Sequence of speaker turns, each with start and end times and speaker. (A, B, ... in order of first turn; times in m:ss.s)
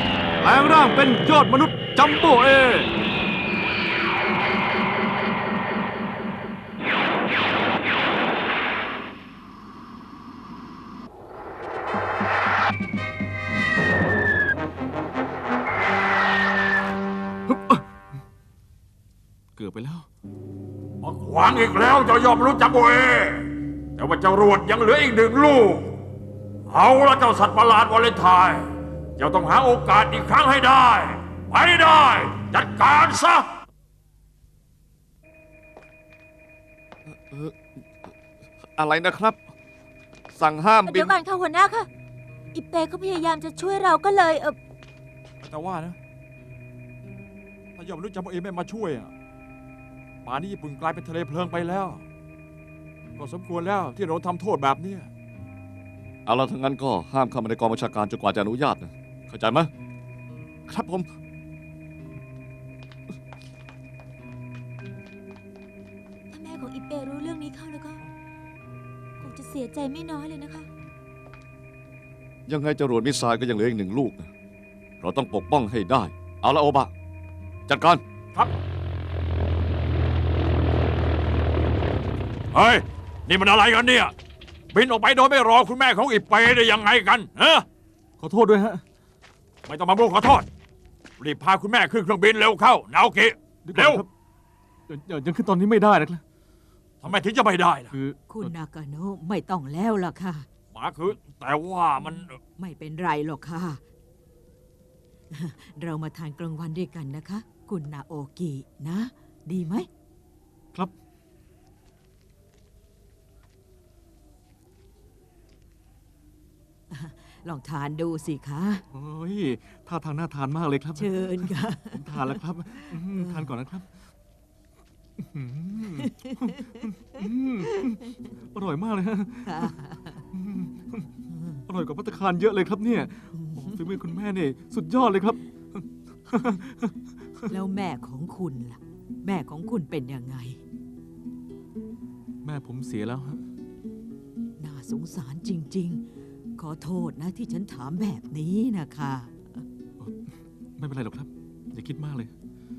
0:00.4-0:02.9 A
0:17.5-0:17.8 A
0:19.6-0:20.0 A
0:21.0-0:25.9 B
0:26.7-0:28.6 B
0:29.2-0:33.4 B
0:37.0-0:37.8 C
0:38.8-0:39.4 C
0:40.3-0:41.2 C
0:40.8-0:41.9 D
0:42.5-0:44.6 D
0:45.4-0:46.0 E
0:47.8-0:49.1 E
0:50.2-0:52.0 E
0:53.2-0:55.1 E
0:56.2-0:59.7 C
1:00.7-1:01.1 C
1:06.3-1:08.0 D
1:09.2-1:10.7 D
1:12.5-1:14.3 C
1:15.0-1:16.9 C
1:17.7-1:18.0 C
1:22.5-1:24.1 B
1:24.7-1:27.6 B
1:28.2-1:28.8 A
1:29.7-1:30.5 B
1:31.2-1:34.0 B
1:33.6-1:34.1 A
1:34.9-1:36.2 A
1:37.0-1:37.9 B
1:37.9-1:38.5 A
1:38.3-1:40.5 F
1:40.7-1:42.4 B
1:42.6-1:43.8 F
1:45.3-1:49.9 F
1:56.9-1:58.8 F
1:58.9-2:03.9 A
2:01.0-2:03.5 F
2:05.2-2:09.7 A
2:06.0-2:06.3 F
2:09.4-2:10.2 F
2:10.3-2:11.1 A
2:11.4-2:11.6 F
2:11.7-2:16.9 A
2:13.3-2:13.8 F
2:17.5-2:20.6 F
2:22.4-2:23.4 A
2:24.6-2:26.0 F
2:26.6-2:29.6 F
2:30.0-2:32.3 A